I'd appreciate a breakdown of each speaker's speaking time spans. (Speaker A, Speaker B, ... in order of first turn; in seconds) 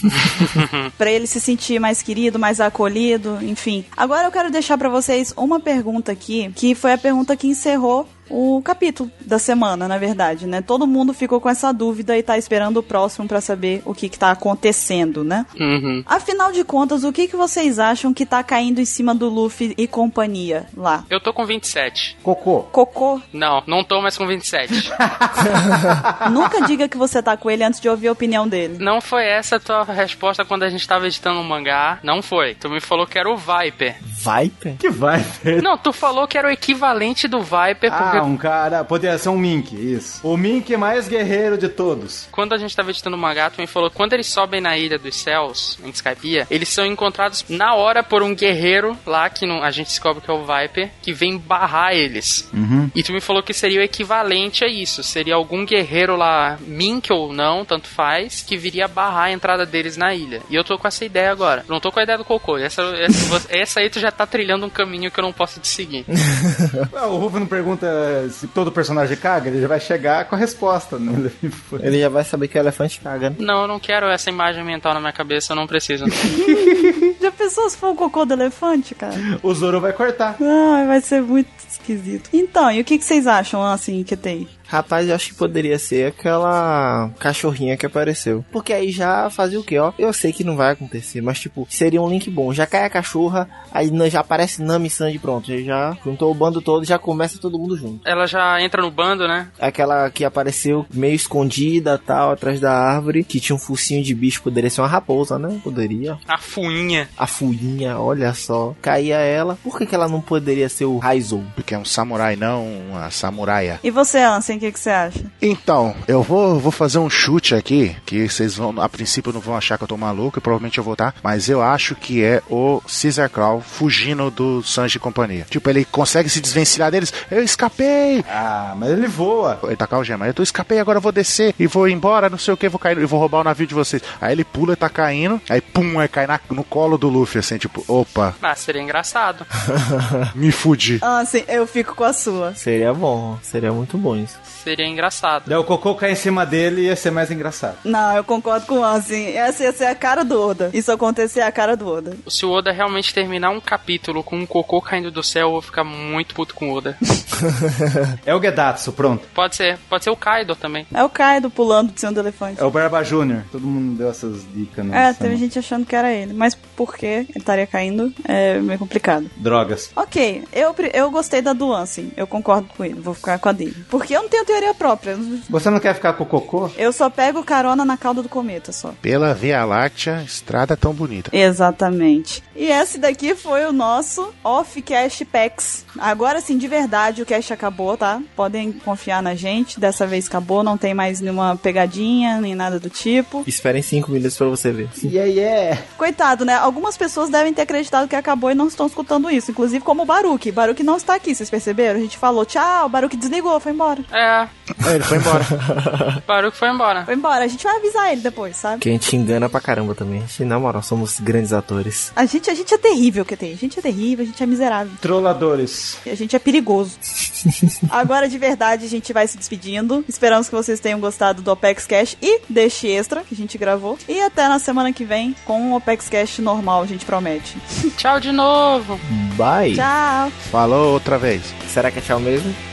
Speaker A: 0.2-0.9, 15.6-16.0, 21.1-22.2, 23.3-24.9, 28.8-34.0, 35.6-38.2, 42.3-66.0, 73.4-76.2, 98.0-99.5, 106.3-107.1, 138.4-139.5, 144.5-145.5, 152.3-157.0, 159.3-160.9, 204.1-204.5, 206.3-207.1, 228.0-229.0
Speaker B: 1.0-15.5, 16.1-21.1, 22.7-23.2, 26.2-28.8, 76.3-79.2, 80.4-84.5, 113.8-115.3, 141.0-142.6, 147.8-152.2, 160.9-162.6, 164.9-169.3, 170.0-175.5, 176.8-179.0, 181.3-193.5, 196.0-204.1, 207.1-208.8, 212.2-215.0, 216.1-217.0, 217.9-227.9, 229.7-230.4
Speaker C: 22.2-22.7, 25.0-26.3, 34.8-35.7, 37.9-42.3, 52.5-52.9, 66.9-71.9, 76.2-77.0, 79.3-80.4, 128.3-129.6, 145.5-147.8, 158.2-159.3, 162.6-165.4, 169.4-169.9, 175.5-176.8, 195.0-195.8, 215.0-216.0
Speaker D: 34.0-34.8, 66.2-66.9, 71.8-73.4, 84.7-98.0, 99.6-106.2, 107.2-111.6, 139.7-140.3, 142.6-144.4, 193.5-195.1, 204.9-206.2, 208.8-212.1, 229.1-229.9, 231.7-232.6
Speaker E: 111.6-113.8, 115.4-128.3, 129.6-138.4, 140.3-141.0, 179.0-181.3, 204.8-205.5, 230.5-231.6